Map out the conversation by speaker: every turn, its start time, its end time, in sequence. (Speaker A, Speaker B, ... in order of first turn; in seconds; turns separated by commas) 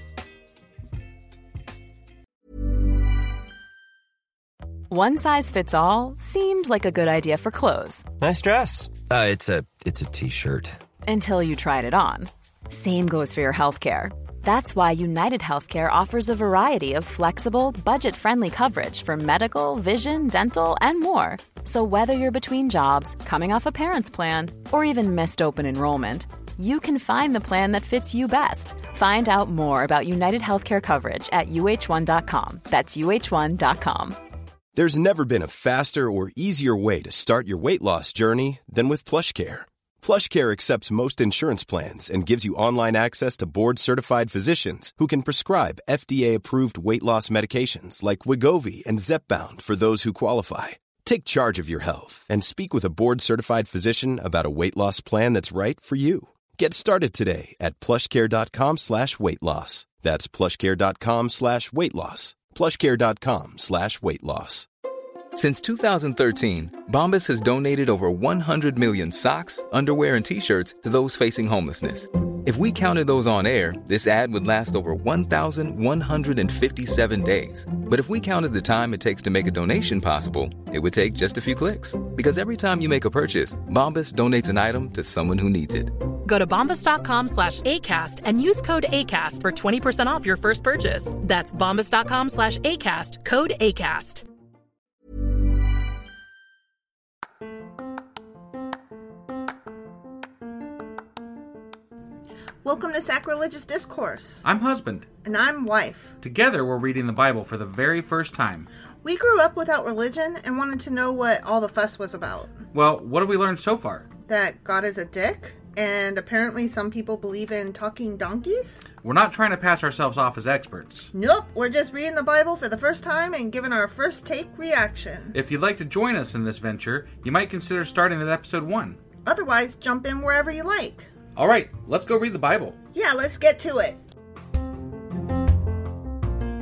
Speaker A: 4.9-8.1, Speaker B: 8.2-10.7, Speaker A: 11.0-34.1, Speaker C: 34.7-64.7, Speaker D: 65.3-85.9, Speaker E: 86.2-94.2, Speaker F: 102.6-104.4, Speaker G: 104.4-105.0, Speaker F: 105.2-106.1, Speaker G: 106.2-108.7, Speaker F: 109.0-112.5, Speaker G: 112.7-114.1, Speaker F: 114.3-118.8, Speaker G: 119.0-121.1, Speaker F: 121.1-125.3, Speaker G: 125.3-129.0, Speaker F: 129.2-131.1, Speaker G: 131.3-132.8, Speaker F: 132.9-134.0